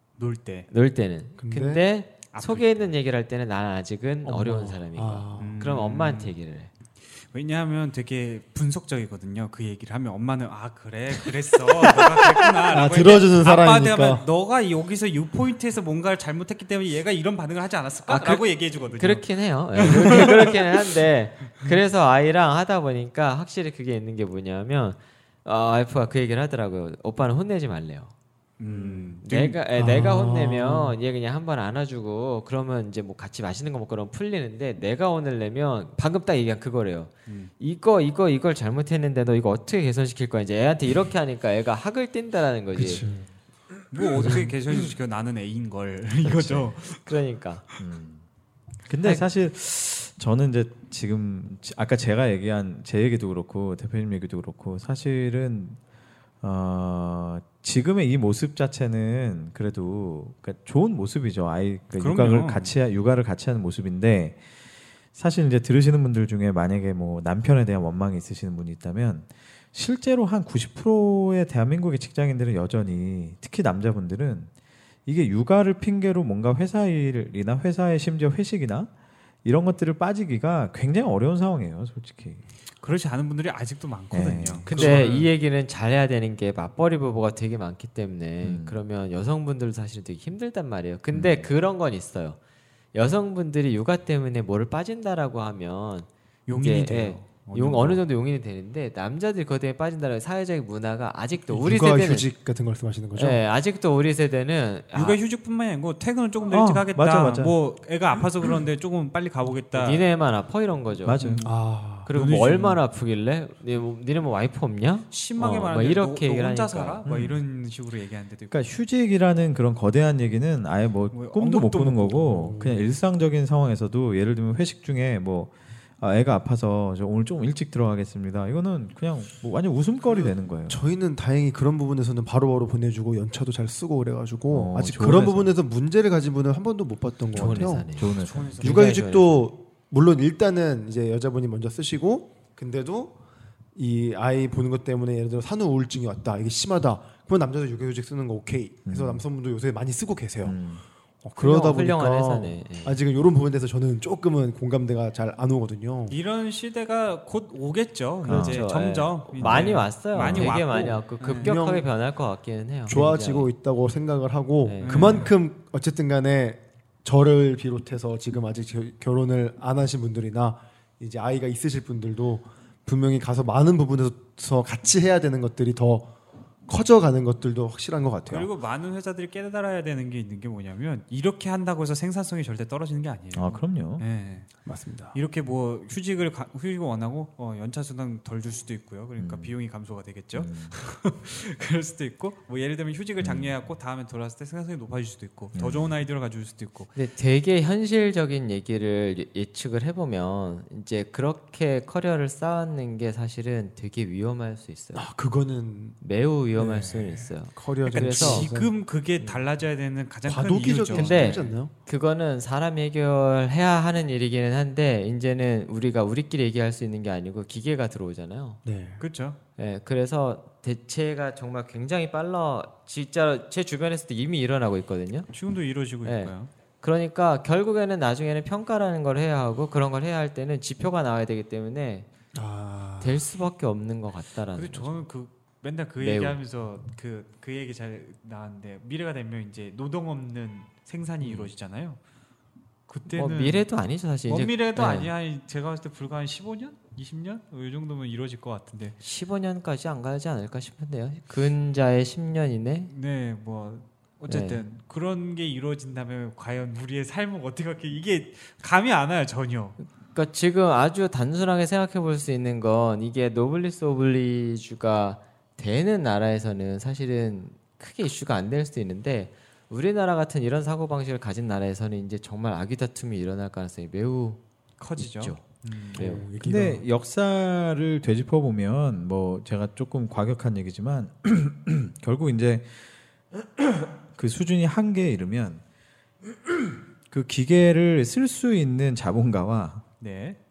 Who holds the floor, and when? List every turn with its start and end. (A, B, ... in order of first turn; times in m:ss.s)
0:00.2-0:00.7 A
0:00.7-0:06.7 B
0:01.4-0:01.8 C
0:02.3-0:02.9 A
0:04.2-0:05.6 C
0:05.4-0:06.4 A
0:07.2-0:20.6 A
0:11.7-0:14.2 C
0:18.1-0:28.1 B
0:28.6-0:29.6 A
0:28.7-0:43.0 B
0:29.8-0:31.0 C
0:42.8-0:43.2 C
0:43.9-0:47.1 A
0:44.1-0:44.5 C
0:46.3-0:47.6 B
0:47.8-0:48.2 D
0:48.9-0:55.8 D
0:56.4-1:04.4 D
1:02.0-1:02.7 A
1:05.1-1:14.5 D
1:15.0-1:18.9 D
1:19.4-1:22.4 D
1:22.8-1:25.3 A
1:24.1-1:24.7 D
1:24.7-1:25.1 C
1:24.7-1:32.4 B
1:28.4-1:28.8 D
1:31.1-1:31.5 D
1:32.9-1:42.3 B
1:36.5-1:38.0 A
1:41.5-1:43.4 C
1:43.1-1:45.2 B
1:44.9-1:50.0 A
1:46.5-1:47.6 D
1:49.7-1:51.2 B
1:51.0-1:51.5 D
1:51.2-1:51.4 A
1:51.4-1:52.1 C
1:52.0-1:57.0 B
1:52.1-1:52.8 A
1:55.1-1:58.6 A
1:57.0-1:57.4 D
1:58.5-2:10.8 D
2:01.1-2:02.5 A
2:02.4-2:02.9 C
2:10.0-2:17.9 C
2:14.5-2:15.5 D
2:17.3-2:19.4 B
2:17.3-2:18.6 D
2:18.2-2:19.0 A
2:18.6-2:23.2 C
2:23.7-2:30.6 C
2:28.8-2:29.2 D
2:30.4-2:30.8 D
2:31.2-2:36.2 C
2:31.4-2:33.0 B
2:36.1-2:41.5 A
2:38.2-2:38.6 D
2:38.2-2:43.5 B
2:39.4-2:40.5 D
2:40.4-2:41.9 C
2:42.9-2:56.1 C
2:44.6-2:45.3 B
2:44.8-2:45.3 A
2:56.7-2:58.5 C
2:58.3-3:16.9 A
3:03.3-3:04.0 D
3:04.6-3:05.2 C
3:09.2-3:09.6 D
3:10.3-3:10.7 D
3:13.2-3:13.5 D
3:15.5-3:16.0 D
3:16.9-3:25.0 B
3:24.9-3:26.0 C
3:26.0-3:28.5 B
3:26.6-3:28.7 C
3:27.8-3:31.5 A
3:30.2-3:31.7 C
3:30.9-3:38.6 B
3:38.6-3:39.0 C
3:39.0-3:39.4 A
3:39.6-3:45.3 B
3:45.3-3:46.5 A
3:46.0-3:52.1 B
3:52.3-3:53.2 C
3:53.0-3:55.0 B
3:54.5-4:02.0 A
3:56.0-3:56.4 B
4:02.9-4:03.7 A
4:03.1-4:05.1 B
4:04.3-4:09.0 A
4:09.0-4:12.9 B
4:12.9-4:19.8 A
4:14.3-4:14.6 B
4:20.1-4:34.4 B
4:34.8-4:36.1 A
4:35.0-4:36.2 B
4:35.9-4:36.8 C
4:36.4-4:45.6 D
4:46.5-4:49.8 D
4:50.0-4:50.4 A